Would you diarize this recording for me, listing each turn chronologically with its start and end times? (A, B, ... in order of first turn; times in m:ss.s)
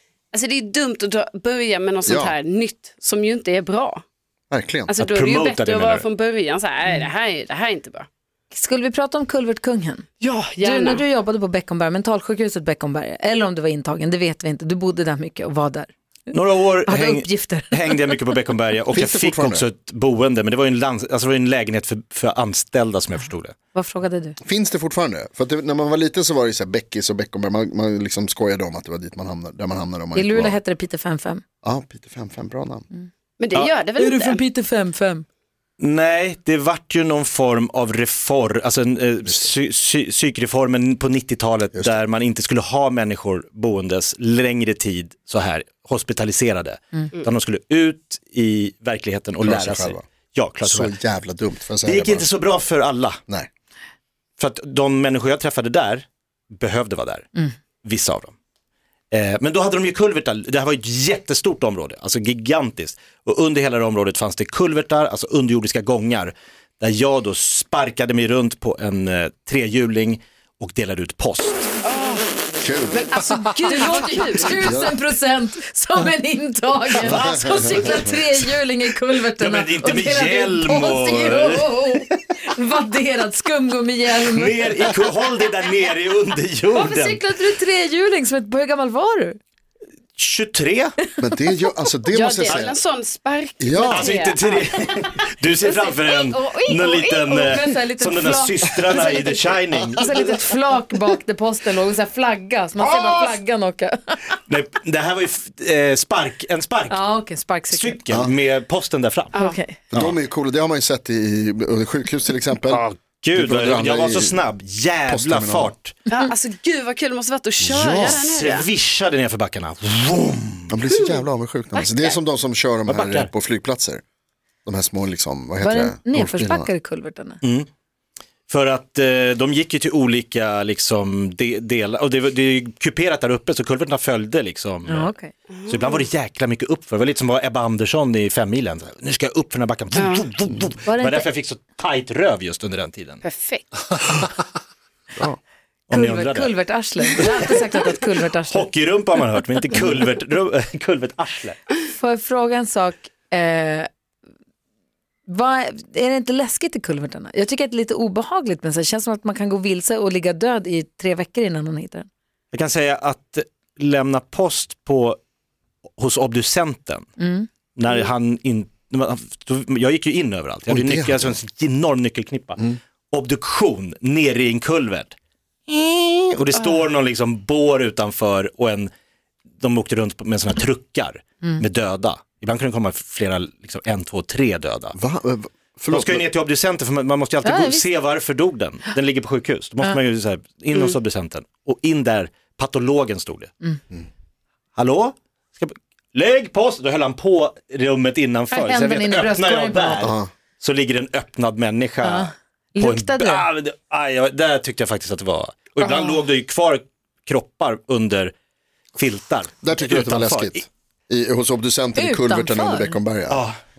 0:00.3-0:04.0 A
0:02.0-0:02.3 B
0:04.5-0:04.9 B
0:04.9-0:08.1 A
0:05.0-0:06.0 C
0:08.5-0:10.0 D
0:10.2-0:11.0 A
0:10.6-0:15.9 D
0:16.3-0:23.5 C
0:16.8-0:18.0 D
0:18.9-0:19.7 B
0:23.7-0:24.4 D
0:24.4-0:30.6 B
0:30.1-0:31.4 D
0:31.6-0:32.8 B
0:33.4-0:34.4 A
0:34.0-0:35.2 D
0:35.8-0:51.0 C
0:49.4-0:50.0 B
0:50.6-0:52.3 B
0:51.8-0:53.2 C
0:54.4-0:57.3 C
0:57.8-0:58.3 C
0:59.1-1:11.8 C
1:11.8-1:13.1 A
1:12.6-1:13.1 B
1:13.1-1:24.9 D
1:14.6-1:15.0 B
1:17.0-1:18.0 C
1:17.1-1:18.1 B
1:19.4-1:21.8 C
1:24.3-1:27.2 C
1:26.7-1:29.4 D
1:30.2-1:31.0 C
1:31.2-1:32.7 B
1:32.1-1:37.6 A
1:33.6-1:34.1 B
1:33.8-1:40.2 C
1:37.0-1:44.4 D
1:42.8-1:43.3 C
1:44.5-1:47.0 C
1:46.9-1:48.0 D
1:47.7-1:49.4 C
1:49.3-1:49.6 A
1:49.4-1:49.8 D
1:49.9-1:54.4 B
1:52.7-1:55.9 C
1:55.1-1:55.7 B
1:56.1-1:58.7 A
1:57.6-1:58.2 B
1:57.8-2:00.7 C
2:00.7-2:04.0 B
2:01.0-2:01.2 A
2:01.7-2:02.2 A
2:02.9-2:03.3 C
2:04.6-2:06.7 B
2:05.6-2:07.4 D
2:07.4-2:07.7 C
2:08.5-2:15.1 C
2:14.9-2:15.3 D
2:15.5-2:16.0 A
2:15.6-2:23.2 C
2:19.9-2:20.2 A
2:20.8-2:21.3 D
2:23.2-2:23.7 A
2:25.9-2:26.5 C
2:25.9-2:28.7 D
2:27.2-2:27.5 C
2:28.5-2:31.6 C
2:31.8-2:33.9 D
2:35.3-2:42.1 D
2:42.5-2:45.2 C
2:46.0-2:47.1 C
2:47.2-2:47.5 D
2:47.8-2:55.1 C
2:50.7-2:51.4 B
2:55.7-2:58.9 C
2:59.6-3:05.0 C
3:04.9-3:06.2 B
3:05.9-3:13.5 C
3:07.4-3:07.9 D
3:14.8-3:28.3 C
3:18.5-3:20.1 D
3:20.0-3:20.3 B
3:22.0-3:23.5 D
3:25.8-3:26.1 D
3:29.0-3:30.6 C
3:29.6-3:33.4 B
3:32.0-3:33.0 D
3:33.3-3:33.6 C